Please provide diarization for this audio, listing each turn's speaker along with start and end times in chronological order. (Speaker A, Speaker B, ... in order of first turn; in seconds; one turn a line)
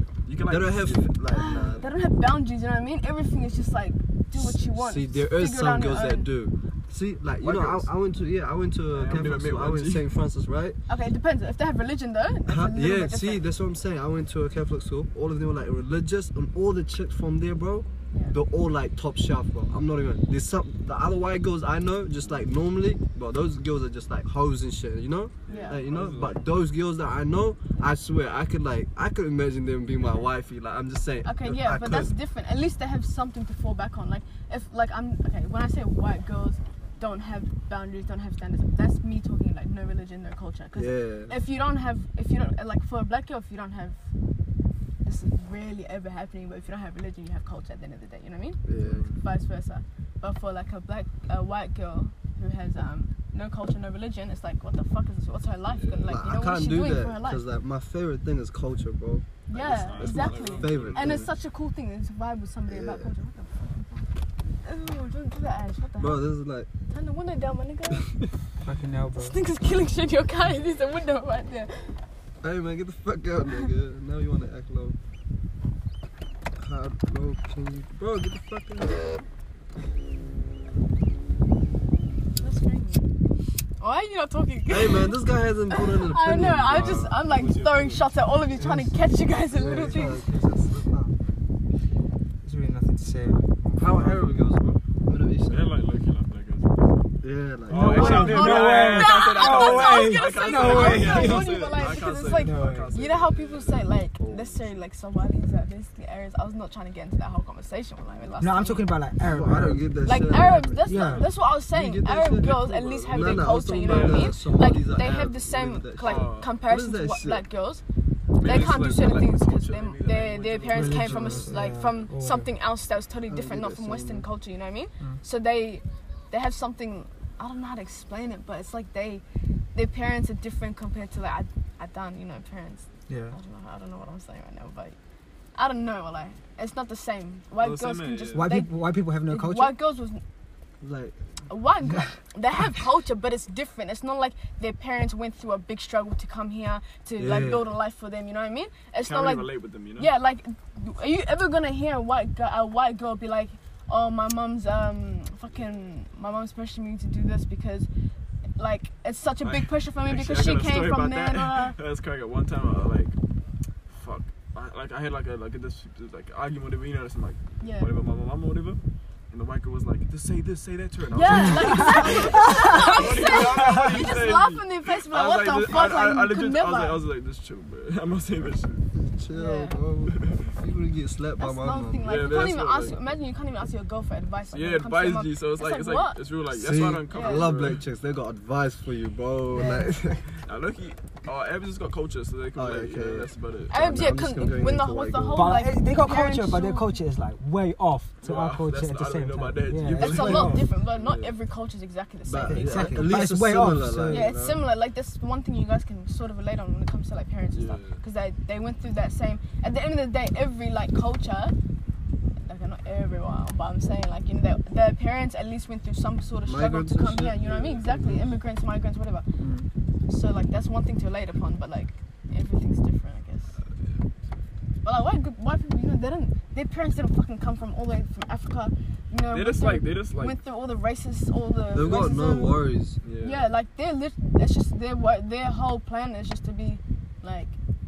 Speaker A: 0.2-1.8
Speaker B: 0.5-1.9
Speaker C: 1.3-6.3
Speaker B: 4.3-10.8
Speaker A: 7.4-7.9
Speaker A: 8.9-10.1
Speaker C: 10.9-13.4
Speaker B: 12.5-32.1
Speaker C: 18.1-18.4
Speaker A: 25.5-26.4
Speaker C: 25.5-25.8
Speaker C: 31.2-44.0
Speaker B: 40.7-41.3
Speaker C: 45.0-48.6
Speaker B: 48.6-49.0
Speaker A: 48.8-49.1
Speaker C: 49.1-57.4
Speaker A: 55.7-56.1
Speaker B: 56.1-59.2
Speaker C: 59.5-64.1
Speaker A: 59.5-61.3
Speaker B: 59.9-61.3
Speaker B: 62.7-63.1
Speaker C: 64.6-66.2
Speaker B: 66.0-66.7
Speaker C: 66.9-68.1
Speaker D: 68.6-69.4
Speaker C: 69.2-72.0
Speaker B: 72.4-75.0
Speaker B: 76.5-79.1
Speaker C: 82.3-83.1
Speaker C: 83.8-85.2
Speaker B: 84.7-87.2
Speaker C: 85.7-90.2
Speaker A: 86.7-88.0
Speaker D: 88.6-89.0
Speaker B: 89.5-90.9
Speaker D: 89.6-90.1
Speaker D: 90.7-91.2
Speaker D: 92.4-93.5
Speaker B: 93.6-95.7
Speaker A: 95.4-104.8
Speaker B: 97.2-98.5
Speaker D: 97.7-103.0
Speaker C: 97.8-108.9
Speaker A: 108.1-108.4
Speaker D: 108.4-111.3
Speaker B: 109.2-110.9
Speaker C: 110.0-117.8
Speaker A: 110.9-111.3
Speaker B: 111.7-117.5
Speaker A: 112.5-114.3
Speaker A: 116.0-116.5
Speaker A: 118.4-121.0
Speaker C: 118.4-129.2
Speaker D: 120.7-122.5
Speaker B: 120.8-121.6
Speaker B: 123.3-124.2
Speaker C: 129.7-135.0
Speaker D: 133.1-133.3
Speaker C: 135.5-140.2
Speaker A: 137.6-138.6
Speaker D: 138.3-139.7
Speaker B: 140.8-141.2
Speaker C: 141.5-157.9
Speaker D: 141.8-142.1
Speaker B: 147.2-147.6
Speaker A: 149.0-150.1
Speaker C: 158.6-161.8
Speaker A: 159.4-163.2
Speaker A: 163.9-168.8
Speaker C: 167.6-167.9
Speaker A: 169.3-178.8
Speaker C: 171.1-177.0
Speaker D: 171.3-174.1
Speaker B: 178.9-182.1
Speaker C: 179.3-179.8
Speaker A: 180.1-180.5
Speaker C: 181.4-186.2
Speaker A: 182.0-183.2
Speaker A: 184.5-187.8
Speaker B: 186.5-190.3
Speaker C: 187.1-187.5
Speaker C: 189.5-190.1
Speaker A: 190.4-193.9
Speaker B: 192.5-195.6
Speaker C: 193.7-197.0
Speaker D: 195.3-200.7
Speaker A: 198.2-200.7
Speaker C: 199.9-203.2
Speaker B: 201.0-201.3
Speaker B: 202.2-204.6
Speaker D: 202.4-204.3
Speaker C: 204.1-211.5
Speaker A: 207.5-208.0
Speaker C: 212.4-219.2
Speaker B: 216.4-218.4
Speaker B: 219.4-219.7
Speaker C: 220.1-223.6
Speaker A: 223.6-224.4
Speaker C: 224.8-232.6
Speaker A: 229.3-230.4
Speaker B: 231.7-233.0
Speaker A: 233.0-233.5
Speaker C: 233.2-237.6